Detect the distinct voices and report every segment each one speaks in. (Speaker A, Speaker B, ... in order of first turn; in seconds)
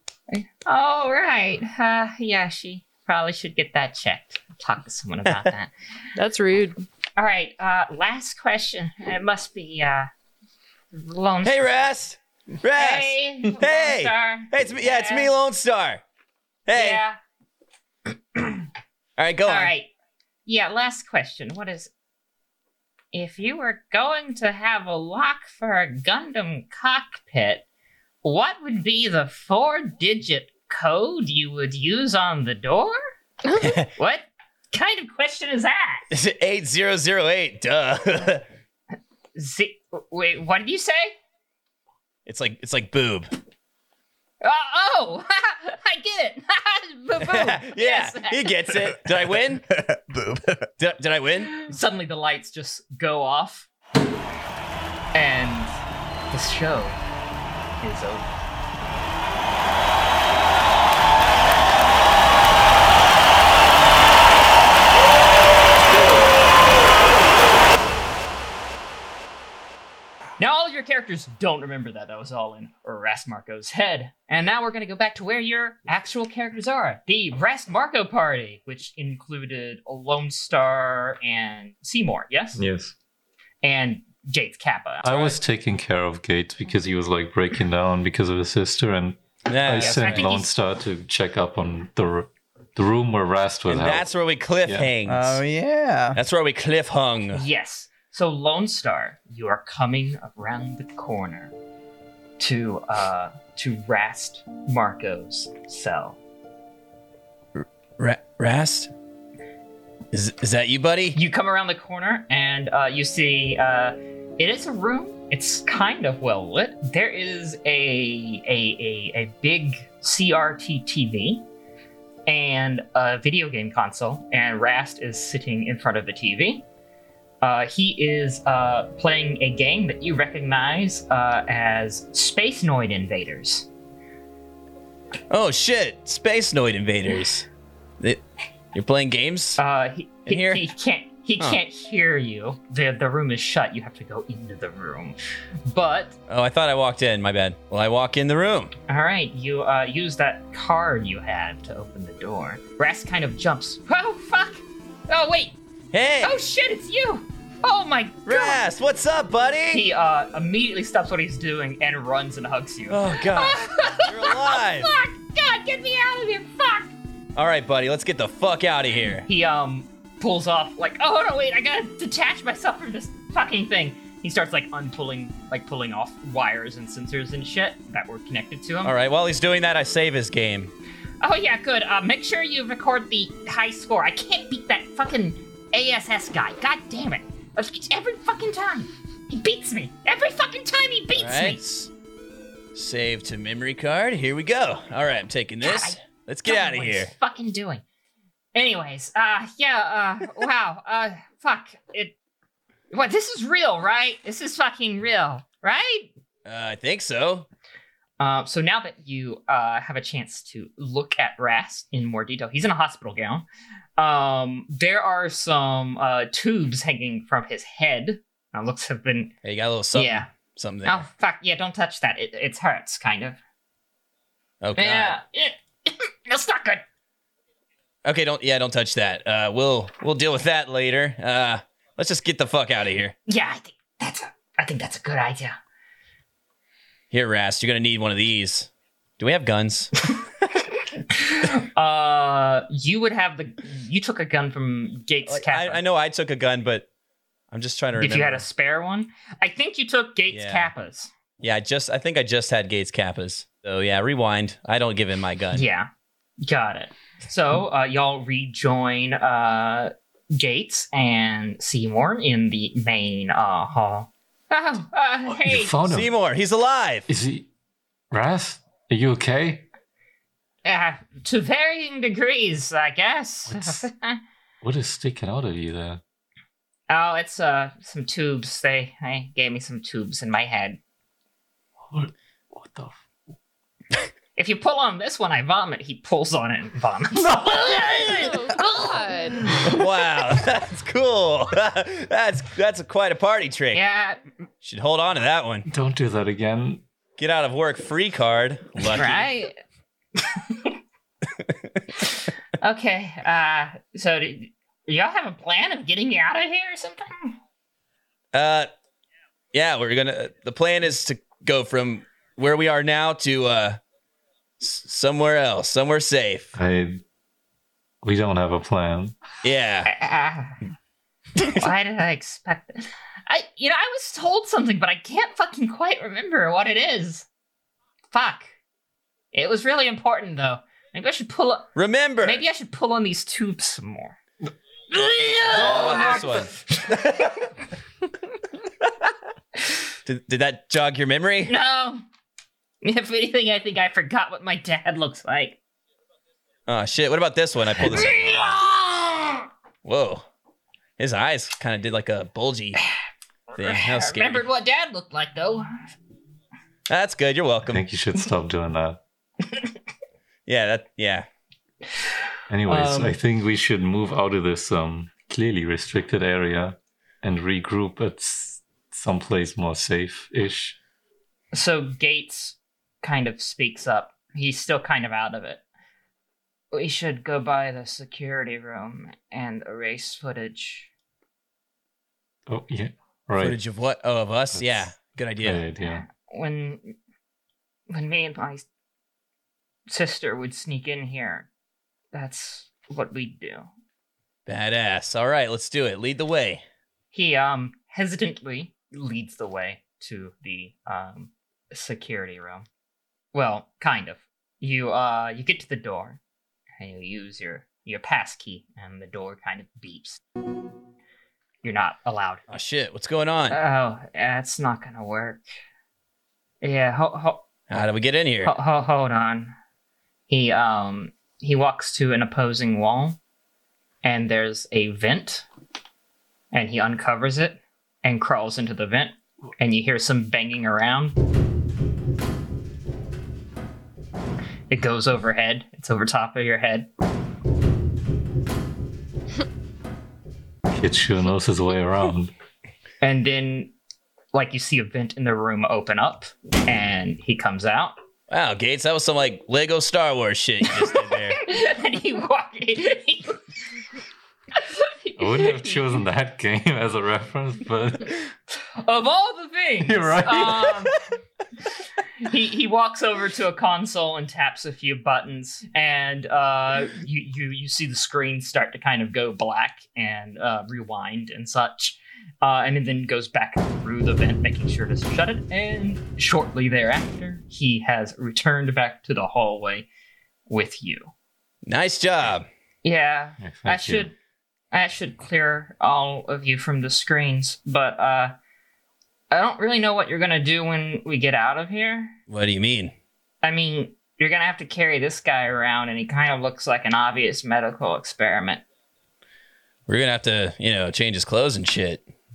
Speaker A: 0.3-5.7, 7.2-10.1, 10.9-11.7, 12.8-15.3, 16.7-17.2, 18.4-18.6, 19.4-19.9, 20.4-21.9, 23.1-27.6, 28.2-33.0, 34.0-36.0, 39.4-41.1, 44.4-48.8, 51.5-53.7, 55.1-55.7, 56.3-57.0, 57.8-58.3, 70.4-82.6, 83.6-85.4, 89.7-90.5, 97.3-101.5, 102.4-106.2, 111.1-121.5, 122.3-126.6, 127.4-133.7, 139.6-146.2, 148.9-155.6, 156.2-158.6, 159.7-166.9, 169.2-178.9, 181.2-191.6, 195.6-197.8, 198.5-202.1, 202.9-206.1, 208.2-213.4, 214.0-219.3, 219.9-220.3, 220.8-223.4, 224.8-226.8, 233.3-235.6, 241.1-245.8, 248.0-251.1, 255.5-255.9, 256.4-265.8, 270.6-274.2, 276.9-280.8, 284.4-288.8, 293.7-294.2, 298.9-299.6, 300.2-300.7, 302.6-307.4, 319.9-320.6, 321.4-327.3, 328.1-328.5, 329.3-334.2, 334.9-336.5, 341.4-342.0, 342.8-345.6, 347.8-349.4, 353.5-355.9, 362.7-363.2, 371.5-375.6, 376.7-380.9, 385.8-386.9, 387.9-388.6, 389.9-391.5, 392.1-393.7, 397.1-402.6, 403.3-406.2, 406.8-410.2, 411.6-412.4, 413.5-415.4, 416.6-417.4, 418.4-419.5, 420.3-423.2, 424.0-425.4, 426.5-431.1, 434.7-436.9, 443.0-443.7, 444.3-447.9, 451.4-453.4, 454.6-455.9, 458.8-460.9, 462.2-479.9, 480.5-481.1, 482.8-484.1, 484.7-488.3, 489.3-492.2, 493.4-498.6
Speaker B: 6.2-6.8, 33.5-33.7, 288.1-289.5
Speaker C: 11.4-16.0, 16.7-17.0, 19.2-19.7, 36.1-38.4, 42.2-43.3, 47.2-49.7, 50.8-51.7, 89.5-90.3, 93.7-95.4, 96.1-97.4, 107.6-108.9, 110.1-111.2, 135.3-137.5, 138.7-139.6, 140.3-140.7, 146.3-148.7, 155.9-156.4, 158.2-159.8, 162.9-164.9, 167.3-169.2, 178.8-180.7, 191.2-191.9, 192.7-197.1, 206.4-207.5, 219.4-221.0, 224.6-225.2, 228.0-233.1, 237.1-240.2, 245.3-246.9, 247.5-248.4, 250.3-250.7, 251.4-255.6, 265.9-267.1, 289.6-293.8, 294.6-295.7, 297.2-299.3, 308.3-308.7, 309.5-313.8, 314.6-316.5, 319.4-319.9, 331.8-332.4, 335.5-337.4, 340.0-341.5, 346.7-348.4, 349.8-350.2, 351.0-352.8, 353.6-354.4, 356.9-357.8, 360.5-361.2, 383.4-385.6, 394.5-396.6, 412.5-413.6, 417.7-418.5, 448.3-451.5, 481.6-482.5, 492.3-492.9, 499.9-502.0
Speaker D: 49.0-50.7, 95.0-96.2
Speaker E: 82.6-82.9, 85.0-94.1, 94.6-94.9, 265.4-266.1, 267.1-267.5, 268.1-269.7, 273.5-273.8, 274.6-276.0, 281.9-282.9, 287.2-288.3, 289.4-289.7, 295.7-296.8, 316.6-317.0, 318.0-319.1, 357.7-359.0, 362.5-370.8, 382.5-383.6, 384.5-386.0, 440.7-442.3, 455.2-458.3, 459.8-461.0, 483.4-484.1